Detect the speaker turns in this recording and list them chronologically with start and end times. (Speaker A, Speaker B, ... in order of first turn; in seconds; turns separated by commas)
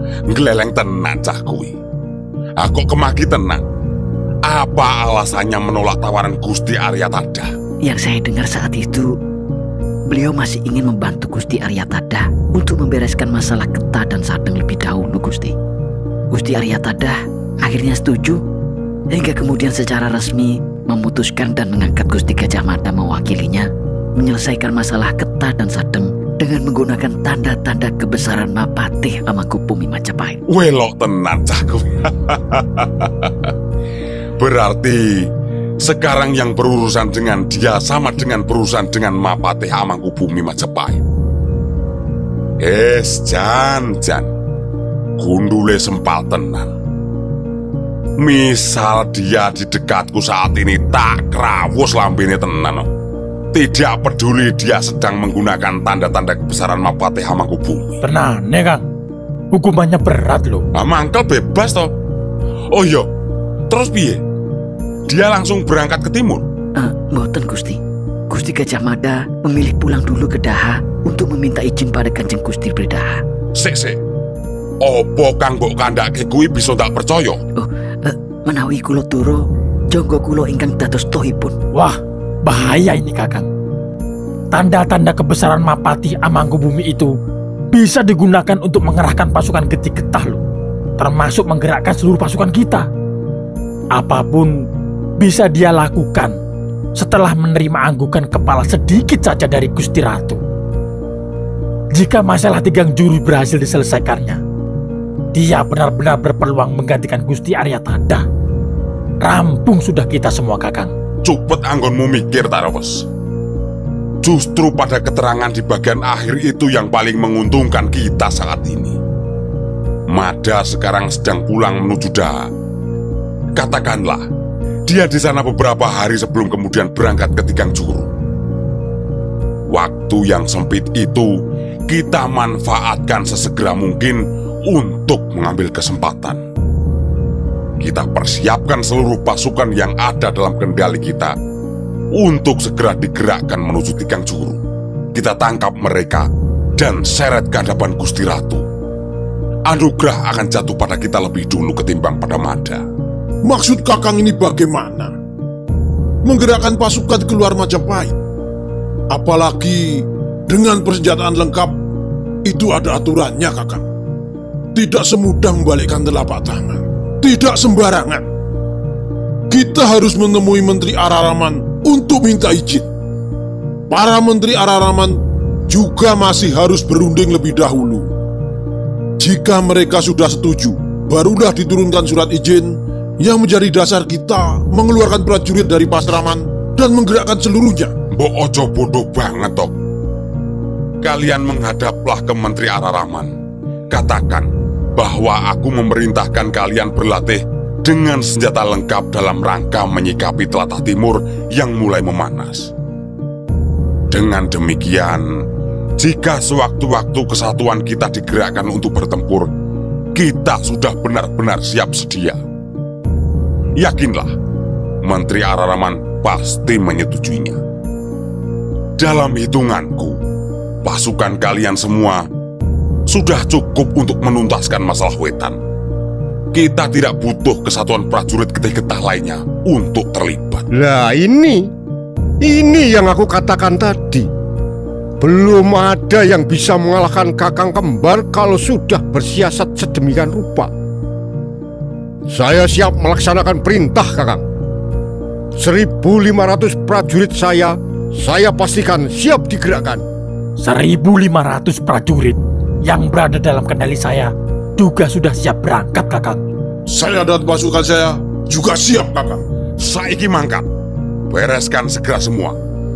Speaker A: 0.3-1.7, Speaker A: 2.6-3.6, Speaker A: 4.5-7.5, Speaker B: 7.8-9.1, Speaker B: 10.1-15.6, Speaker B: 16.3-18.4, Speaker B: 19.1-30.4, Speaker A: 30.5-33.5, Speaker A: 34.4-35.3, Speaker A: 35.8-41.0, Speaker A: 42.6-44.3, Speaker A: 45.2-46.7, Speaker A: 48.2-52.9, Speaker A: 53.5-58.0, Speaker C: 58.0-58.9, Speaker C: 59.5-60.6, Speaker A: 60.8-61.9, Speaker A: 62.7-63.1, Speaker A: 63.7-64.2, Speaker A: 65.1-66.5, Speaker B: 66.8-67.8, Speaker B: 68.3-73.2, Speaker A: 73.6-74.0, Speaker A: 74.8-77.4, Speaker B: 77.6-81.6, Speaker C: 81.7-83.5, Speaker C: 84.5-87.1, Speaker C: 87.7-90.4, Speaker C: 91.0-92.9, Speaker C: 93.9-94.6, Speaker C: 95.2-96.4, Speaker C: 97.0-100.4, Speaker C: 101.9-104.4, Speaker C: 105.3-108.2, Speaker C: 109.2-110.9, Speaker A: 111.2-113.0, Speaker A: 114.2-119.0, Speaker A: 120.1-122.4, Speaker A: 123.6-124.2, Speaker A: 124.9-128.1, Speaker A: 129.7-131.3, Speaker A: 131.9-136.4, Speaker A: 137.8-141.3, Speaker A: 142.2-144.6, Speaker A: 145.2-148.6, Speaker A: 149.7-152.8, Speaker D: 153.4-155.1, Speaker D: 156.3-158.2, Speaker D: 159.1-161.8, Speaker D: 162.4-163.8, Speaker D: 164.8-168.2, Speaker D: 169.5-172.9, Speaker D: 173.9-175.2, Speaker D: 175.7-178.1, Speaker D: 179.2-187.9, Speaker A: 188.2-189.7, Speaker A: 191.0-193.3, Speaker A: 193.9-202.7, Speaker A: 204.1-205.2, Speaker A: 206.0-209.5, Speaker A: 210.2-212.4, Speaker A: 213.8-214.3, Speaker A: 215.0-217.6, Speaker A: 219.0-220.2, Speaker A: 220.8-222.2, Speaker A: 223.1-225.6, Speaker A: 226.5-230.7, Speaker E: 230.8-231.7, Speaker E: 232.4-234.3, Speaker E: 235.2-240.7, Speaker E: 242.3-244.4, Speaker E: 245.6-250.0, Speaker C: 250.6-256.4, Speaker D: 256.9-259.4, Speaker A: 259.8-260.7, Speaker A: 261.3-262.6